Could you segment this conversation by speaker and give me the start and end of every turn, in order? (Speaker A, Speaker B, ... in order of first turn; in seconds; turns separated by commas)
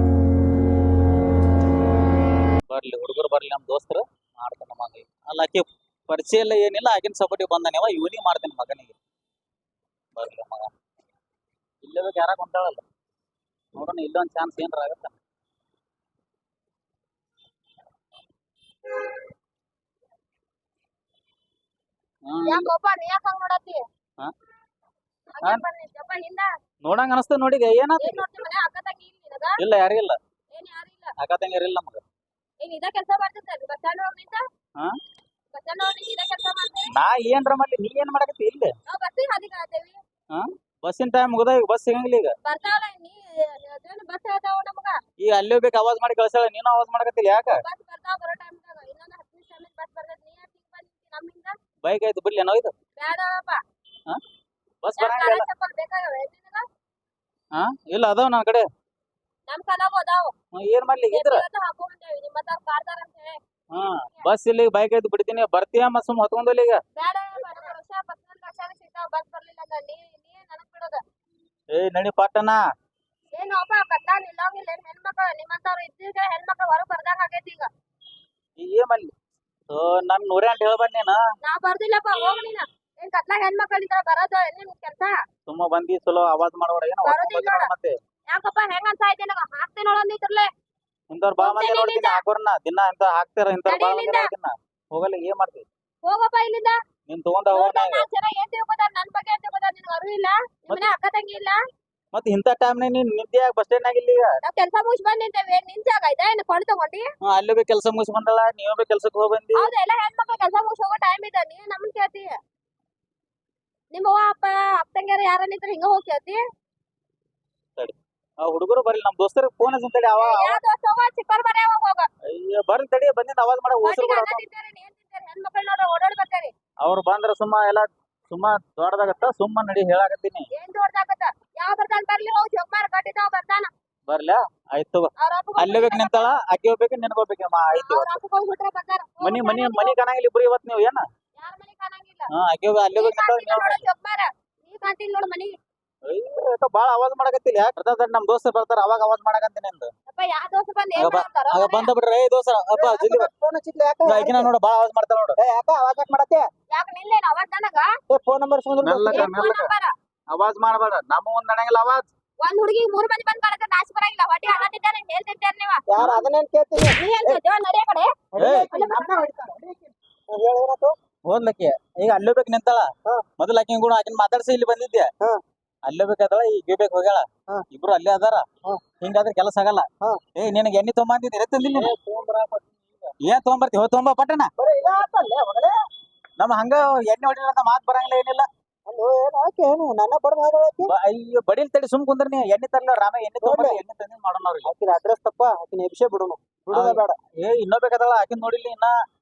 Speaker A: 2.7-8.9, Speaker A: 10.2-10.7, Speaker A: 11.8-12.8, Speaker A: 13.7-15.2, Speaker A: 22.3-22.7, Speaker B: 22.4-23.8, Speaker B: 25.3-26.5, Speaker A: 26.8-28.2, Speaker B: 28.0-29.6, Speaker A: 29.6-30.2, Speaker B: 30.5-31.1, Speaker A: 31.2-32.0, Speaker B: 32.6-34.4, Speaker B: 35.5-36.9, Speaker A: 36.9-38.7, Speaker B: 38.9-40.0, Speaker A: 40.3-42.3, Speaker B: 42.4-45.0, Speaker A: 45.2-47.6, Speaker B: 47.6-51.5, Speaker A: 51.8-52.7, Speaker B: 53.0-53.6, Speaker A: 54.8-55.5, Speaker B: 55.0-56.6, Speaker A: 57.5-58.7, Speaker B: 59.5-60.3, Speaker A: 60.5-61.5, Speaker B: 61.1-63.4, Speaker A: 63.7-66.8, Speaker B: 67.0-71.0, Speaker A: 71.7-72.6, Speaker B: 73.3-77.7, Speaker A: 78.6-79.1, Speaker A: 79.7-81.2, Speaker B: 81.4-85.2, Speaker A: 85.5-88.0, Speaker B: 87.0-87.7, Speaker B: 88.3-90.5, Speaker A: 91.1-95.7, Speaker B: 91.4-92.2, Speaker B: 93.7-94.3, Speaker B: 96.0-96.8, Speaker A: 97.1-98.1, Speaker B: 97.5-101.6, Speaker A: 102.1-104.4, Speaker B: 104.4-107.1, Speaker A: 107.2-109.7, Speaker B: 109.5-112.4, Speaker B: 113.9-116.4, Speaker A: 117.8-120.6, Speaker B: 120.2-122.1, Speaker A: 122.3-124.4, Speaker B: 123.8-126.5, Speaker A: 126.8-130.5, Speaker B: 130.5-133.7, Speaker A: 134.1-138.2, Speaker B: 135.2-136.3, Speaker B: 137.7-140.0, Speaker A: 139.2-141.0, Speaker B: 141.3-142.3, Speaker A: 142.3-143.9, Speaker B: 142.9-145.6, Speaker A: 146.1-149.9, Speaker B: 150.1-151.9, Speaker A: 150.9-153.3, Speaker C: 152.7-154.5, Speaker A: 154.0-155.4, Speaker C: 155.4-156.5, Speaker B: 156.7-157.9, Speaker C: 158.1-159.4, Speaker A: 158.8-159.7, Speaker B: 159.1-159.9, Speaker A: 160.3-162.1, Speaker B: 162.4-165.8, Speaker C: 165.9-167.4, Speaker A: 165.9-166.3, Speaker B: 167.0-168.1, Speaker C: 168.3-171.0, Speaker A: 168.4-168.7, Speaker B: 168.7-169.2, Speaker A: 171.2-175.1, Speaker A: 175.8-178.4, Speaker A: 179.0-181.9, Speaker C: 181.7-183.1, Speaker A: 183.2-184.5, Speaker C: 184.6-185.8, Speaker A: 186.4-188.5, Speaker C: 188.8-190.9, Speaker A: 190.8-194.7, Speaker C: 193.4-193.8, Speaker C: 194.6-197.2, Speaker A: 196.7-198.9